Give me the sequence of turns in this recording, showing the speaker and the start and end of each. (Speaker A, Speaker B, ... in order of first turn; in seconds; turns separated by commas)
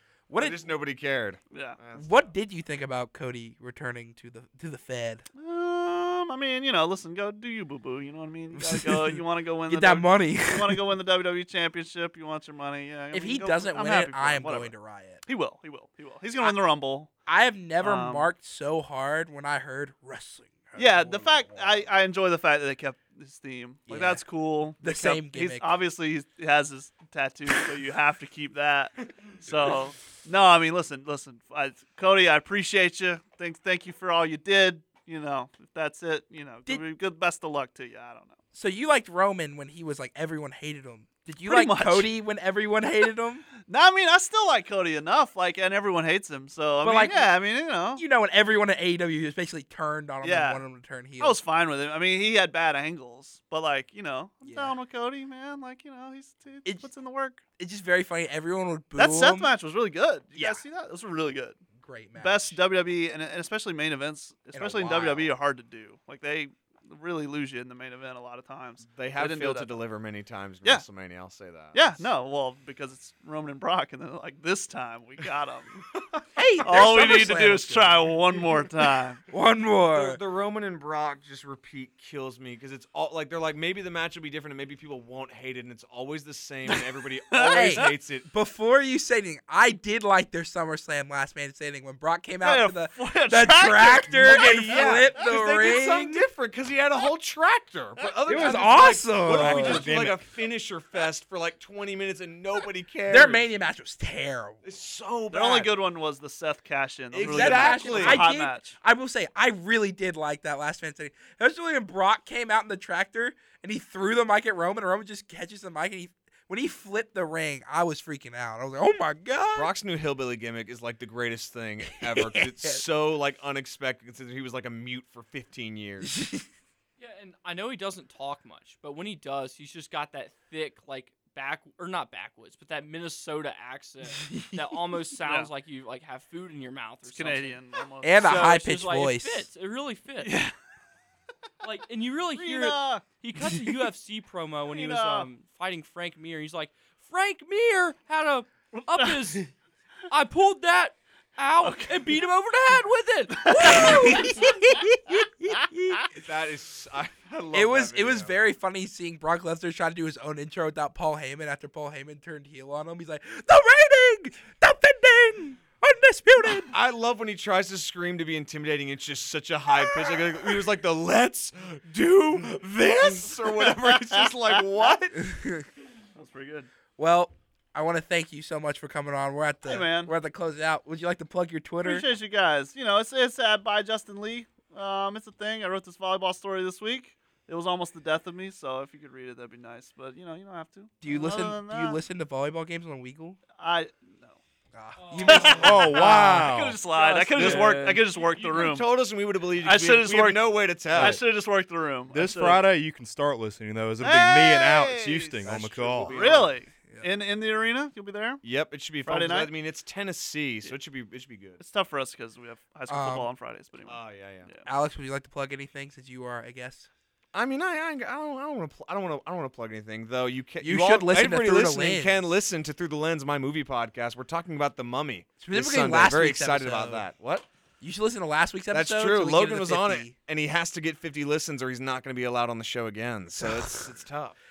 Speaker A: 0.3-0.6, Speaker B: 0.4-2.3, Speaker C: 1.5-1.8, Speaker A: 1.9-5.2, Speaker C: 5.4-14.7, Speaker A: 8.6-10.8, Speaker A: 13.1-15.2, Speaker C: 15.2-17.1, Speaker A: 17.2-21.3, Speaker C: 17.8-18.3, Speaker C: 20.8-38.4, Speaker A: 23.9-24.2, Speaker A: 24.8-25.7, Speaker B: 29.4-29.8, Speaker A: 38.5-43.4, Speaker C: 41.4-42.1, Speaker C: 43.6-48.0, Speaker A: 46.8-47.3, Speaker A: 48.0-51.4, Speaker C: 50.2-50.6, Speaker C: 51.2-57.4, Speaker A: 54.4-54.7, Speaker A: 57.6-59.5, Speaker C: 59.0-61.6, Speaker A: 60.3-60.6, Speaker A: 61.8-62.6, Speaker C: 62.2-69.8, Speaker A: 64.5-65.3, Speaker B: 68.9-72.0, Speaker C: 71.7-75.8, Speaker A: 76.3-78.1, Speaker C: 76.6-79.2, Speaker A: 79.3-80.2, Speaker B: 79.9-88.3, Speaker C: 86.7-87.9, Speaker A: 87.5-96.2, Speaker C: 92.4-95.1, Speaker B: 94.1-103.5, Speaker A: 98.3-99.8, Speaker D: 99.2-100.2, Speaker A: 103.1-104.6, Speaker B: 104.6-105.7, Speaker C: 105.3-108.7, Speaker B: 107.1-108.3, Speaker A: 107.2-119.7, Speaker B: 119.5-126.2, Speaker A: 122.0-122.8, Speaker A: 126.0-126.4, Speaker E: 127.0-137.6, Speaker A: 134.2-134.6, Speaker C: 135.2-135.5, Speaker C: 137.1-138.5, Speaker A: 138.0-139.4, Speaker E: 138.2-140.4, Speaker C: 140.2-140.5, Speaker E: 141.6-149.5, Speaker C: 142.3-143.1, Speaker C: 144.7-145.3, Speaker C: 148.7-149.2, Speaker E: 150.1-154.4, Speaker C: 151.6-152.1, Speaker C: 153.4-154.5, Speaker A: 153.5-156.0, Speaker B: 156.2-158.3, Speaker A: 157.5-166.7, Speaker B: 166.6-175.3, Speaker C: 173.3-174.9, Speaker A: 175.2-175.7, Speaker C: 176.1-176.7, Speaker A: 177.0-182.1, Speaker C: 179.6-180.1, Speaker C: 181.8-192.0, Speaker A: 191.0-193.4, Speaker C: 193.6-194.3, Speaker A: 194.7-196.1, Speaker E: 195.0-198.1, Speaker C: 195.2-198.9, Speaker D: 195.6-196.8, Speaker D: 197.4-197.8, Speaker B: 198.2-201.2, Speaker C: 199.6-202.6, Speaker D: 200.9-201.2, Speaker D: 202.1-206.4, Speaker C: 204.0-205.4, Speaker B: 205.4-206.5, Speaker C: 206.1-208.4, Speaker B: 208.4-211.6, Speaker C: 209.0-209.5, Speaker C: 211.6-214.7, Speaker A: 212.9-213.3, Speaker B: 213.9-214.5, Speaker A: 214.7-216.9, Speaker B: 217.3-227.4, Speaker A: 220.6-222.3, Speaker A: 225.4-227.0, Speaker A: 227.8-230.1, Speaker B: 228.7-234.3, Speaker A: 233.4-233.8